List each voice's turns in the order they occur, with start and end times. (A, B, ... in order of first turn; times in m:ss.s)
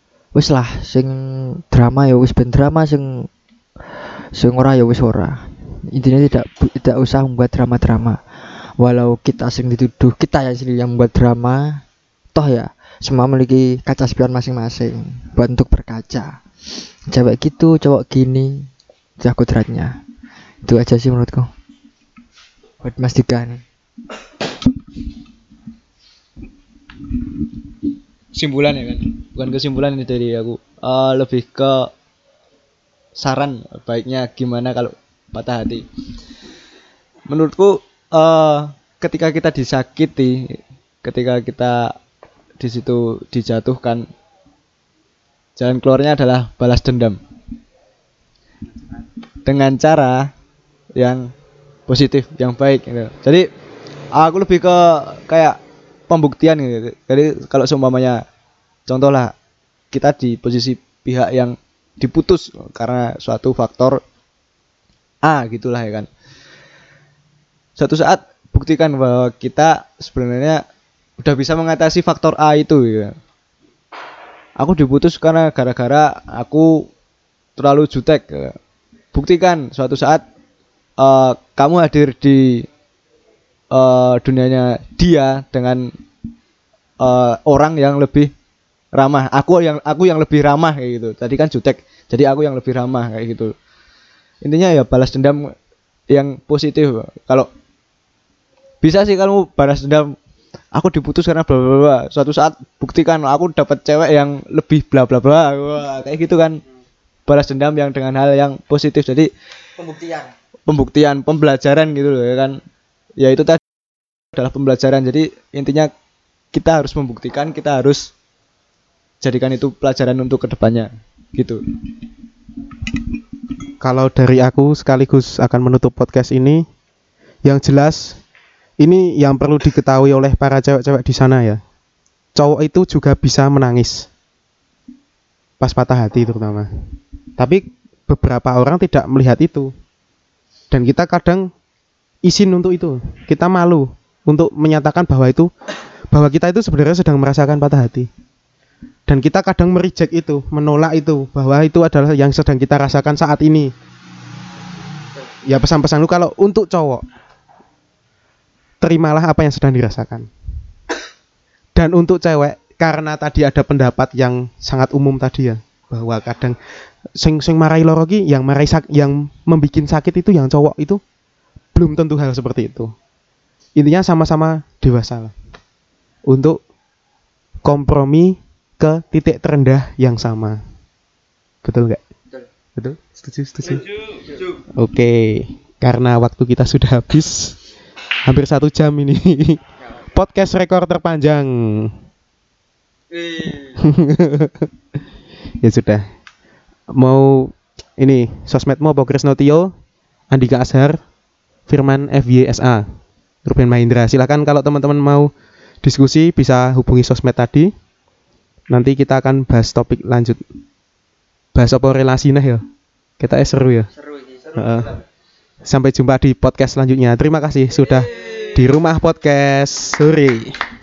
0:00.4-0:03.3 A
0:04.4-0:08.2 A
0:08.8-0:11.8 A
0:12.4-0:16.3 A
0:17.1-0:20.0 A
0:20.7-0:21.5 A
0:22.8-0:23.6 A
0:28.3-0:31.9 B
0:33.2-0:35.9 B
0:37.3-0:42.0 B
0:42.6-0:44.1 B
0:45.6-0:47.2 B
0:49.4-0:50.3 B
0:51.0-0:51.3 B
0:51.9-0:53.5 B
0:54.2-0:55.6 B
0:56.1-0:58.2 B
0:58.9-0:59.3 B
0:59.9-1:04.0 B
1:05.2-1:06.1 B
1:07.8-1:10.6 B
1:11.2-1:13.2 B
1:14.6-1:16.9 B
1:17.6-1:18.6 B
1:19.1-1:20.2 B
1:21.0-1:22.7 B
1:23.7-1:25.9 B
1:27.0-1:28.3 B
1:29.0-1:33.5 B
1:34.4-1:35.5 B
1:36.1-1:37.5 B
1:38.8-1:40.2 B
1:40.7-1:46.6 B
1:47.3-1:49.3 B
1:49.8-1:50.3 A
1:50.7-1:52.6 B
1:53.2-1:53.6 B
1:54.3-1:55.9 B
1:56.5-1:58.1 B
1:59.2-2:01.6 B
2:03.8-2:06.6 C
2:07.4-2:08.2 C
2:08.8-2:11.6 C
2:12.4-2:14.1 C
2:15.6-2:16.7 C
2:17.4-2:19.7 C
2:20.7-2:21.5 C
2:22.2-2:25.5 C
2:26.1-2:28.1 C
2:29.1-2:33.7 C
2:35.4-2:37.1 C
2:38.8-2:40.3 C
2:41.8-2:46.6 C
2:47.2-2:51.0 C
2:51.8-2:52.9 C
2:53.8-2:55.3 C
2:56.3-2:56.6 C
2:57.6-3:00.6 C
3:01.6-3:02.0 C
3:02.8-3:03.8 C
3:04.2-3:04.6 A
3:04.8-3:07.6 C
3:08.3-3:09.6 C
3:09.8-3:10.1 A
3:10.1-3:12.0 C
3:13.1-3:13.9 A
3:13.8-3:14.7 C
3:15.6-3:16.0 C
3:17.0-3:19.7 C
3:20.3-3:21.0 C
3:21.7-3:22.8 C
3:23.4-3:25.3 C
3:25.8-3:27.7 C
3:28.7-3:30.4 C
3:31.6-3:32.6 C
3:33.2-3:33.9 C
3:33.9-3:35.0 A
3:34.6-3:35.0 C
3:35.6-3:40.6 C
3:37.8-3:38.7 A